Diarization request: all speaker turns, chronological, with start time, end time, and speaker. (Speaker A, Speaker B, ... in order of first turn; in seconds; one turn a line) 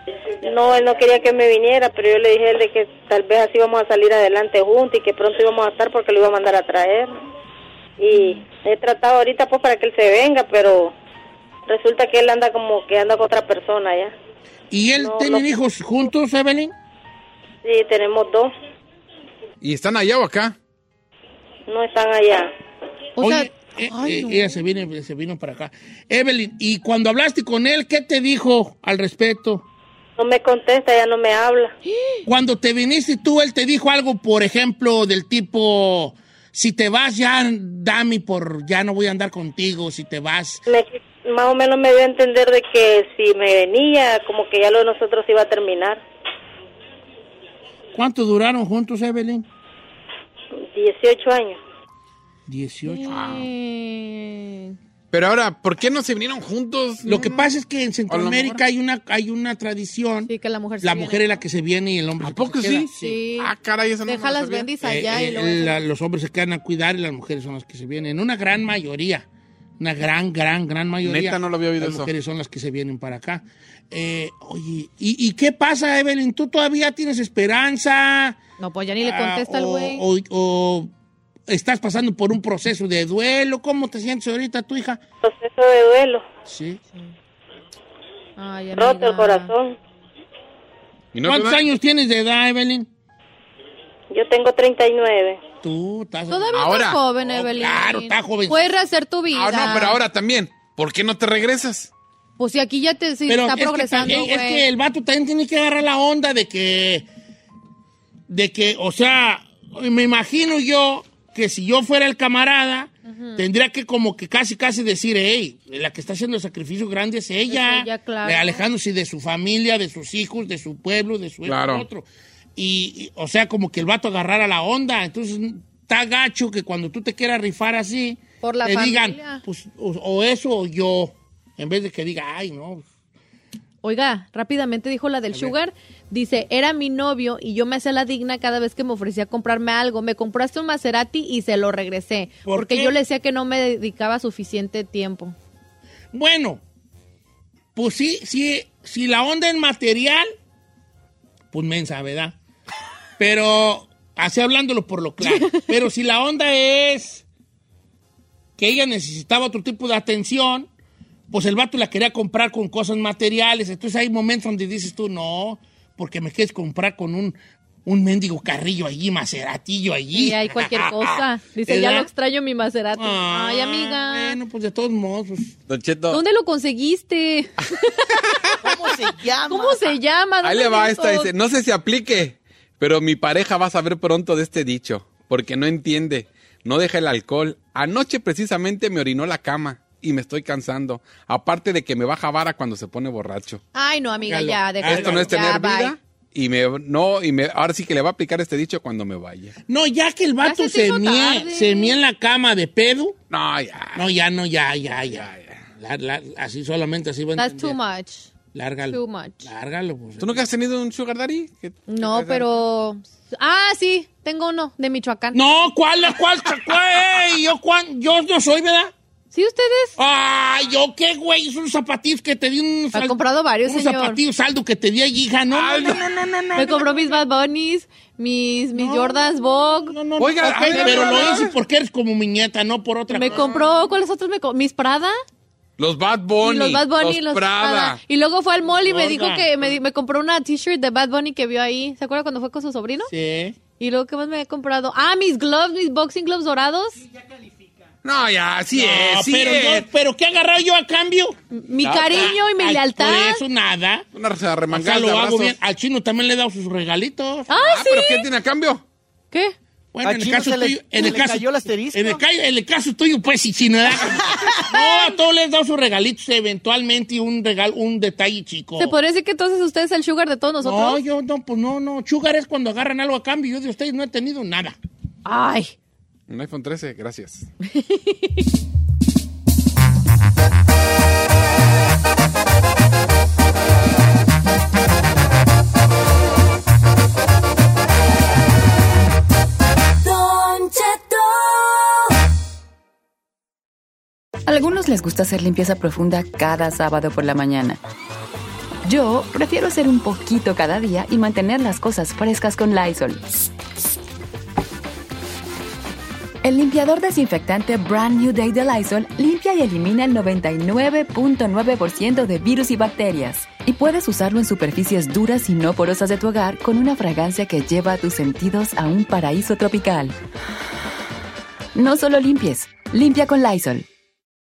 Speaker A: 0.4-7.1
Speaker A: 8.0-10.9
Speaker A: 11.7-14.1
Speaker B: 14.7-16.7
Speaker A: 15.0-15.5
Speaker A: 17.6-18.5
Speaker C: 19.6-20.6
Speaker A: 21.7-22.5
Speaker D: 23.2-24.6
Speaker B: 23.2-29.6
Speaker A: 30.2-31.7
Speaker D: 31.9-32.2
Speaker B: 32.2-40.6
Speaker A: 40.7-46.0
Speaker B: 47.9-49.5
Speaker A: 50.6-51.6
Speaker B: 52.5-53.2
Speaker D: 52.9-54.8
Speaker C: 53.1-53.5
Speaker C: 55.1-57.5
Speaker B: 57.0-63.2
Speaker C: 58.1-58.6
Speaker D: 60.3-61.4
Speaker C: 62.2-64.7
Speaker D: 62.9-63.5
Speaker D: 64.1-65.8
Speaker B: 64.8-69.2
Speaker B: 69.8-78.4
Speaker C: 71.0-72.1
Speaker D: 78.6-80.0
Speaker B: 79.0-80.9
Speaker B: 81.5-85.0
Speaker A: 85.2-86.2
Speaker B: 86.5-86.8
Speaker D: 88.4-89.5
Speaker A: 88.7-89.8
Speaker C: 91.1-91.6
Speaker B: 91.3-92.9
Speaker A: 94.1-95.4
Speaker B: 95.6-98.7
Speaker D: 96.3-100.0
Speaker C: 96.5-97.0
Speaker C: 99.3-101.9
Speaker D: 102.4-104.7
Speaker B: 103.3-107.0
Speaker B: 108.3-122.0
Speaker D: 113.0-113.4
Speaker D: 117.5-118.6
Speaker C: 121.5-121.8
Speaker B: 122.5-132.8
Speaker D: 128.4-129.4
Speaker D: 133.8-145.3
Speaker B: 142.5-142.9
Speaker B: 146.1-146.6
Speaker B: 147.7-150.3
Speaker B: 151.5-152.3
Speaker B: 153.2-157.2
Speaker D: 155.2-155.7
Speaker B: 158.6-160.7
Speaker B: 161.3-172.1
Speaker D: 170.1-174.4
Speaker B: 172.9-175.6
Speaker C: 175.7-176.2
Speaker D: 176.1-178.1
Speaker E: 178.6-179.9
Speaker D: 179.4-181.3
Speaker C: 180.4-193.6
Speaker D: 193.7-196.0
Speaker B: 194.3-195.4
Speaker C: 194.3-199.5
Speaker B: 199.7-203.2
Speaker D: 200.4-201.9
Speaker C: 203.3-204.1
Speaker B: 203.9-207.8
Speaker C: 205.1-205.6
Speaker D: 207.4-208.3
Speaker B: 208.5-210.5
Speaker D: 208.9-209.5
Speaker C: 210.2-211.8
Speaker D: 211.9-215.4
Speaker B: 215.3-218.9
Speaker D: 219.3-219.9
Speaker B: 220.0-227.1
Speaker D: 222.9-224.2
Speaker C: 225.5-226.2
Speaker D: 226.5-231.4
Speaker B: 228.7-233.7
Speaker C: 230.2-231.6
Speaker D: 233.1-235.1
Speaker C: 233.2-233.6
Speaker C: 235.8-238.0
Speaker D: 236.4-243.1
Speaker B: 238.7-239.5
Speaker B: 243.1-243.6
Speaker D: 243.8-247.0
Speaker C: 248.0-249.9
Speaker B: 248.7-251.3
Speaker D: 251.5-253.4
Speaker C: 251.8-252.3
Speaker B: 252.1-254.1
Speaker C: 254.1-255.5
Speaker B: 254.7-257.6
Speaker D: 257.5-258.3
Speaker C: 257.6-258.8
Speaker B: 259.9-269.0
Speaker E: 260.0-262.2
Speaker D: 268.8-271.0
Speaker B: 270.6-274.8
Speaker D: 275.2-275.7
Speaker C: 276.3-277.5
Speaker D: 277.6-278.4
Speaker F: 290.0-292.0
Speaker G: 294.4-297.8
Speaker G: 298.8-303.2
Speaker G: 306.4-320.1
Speaker G: 321.7-323.8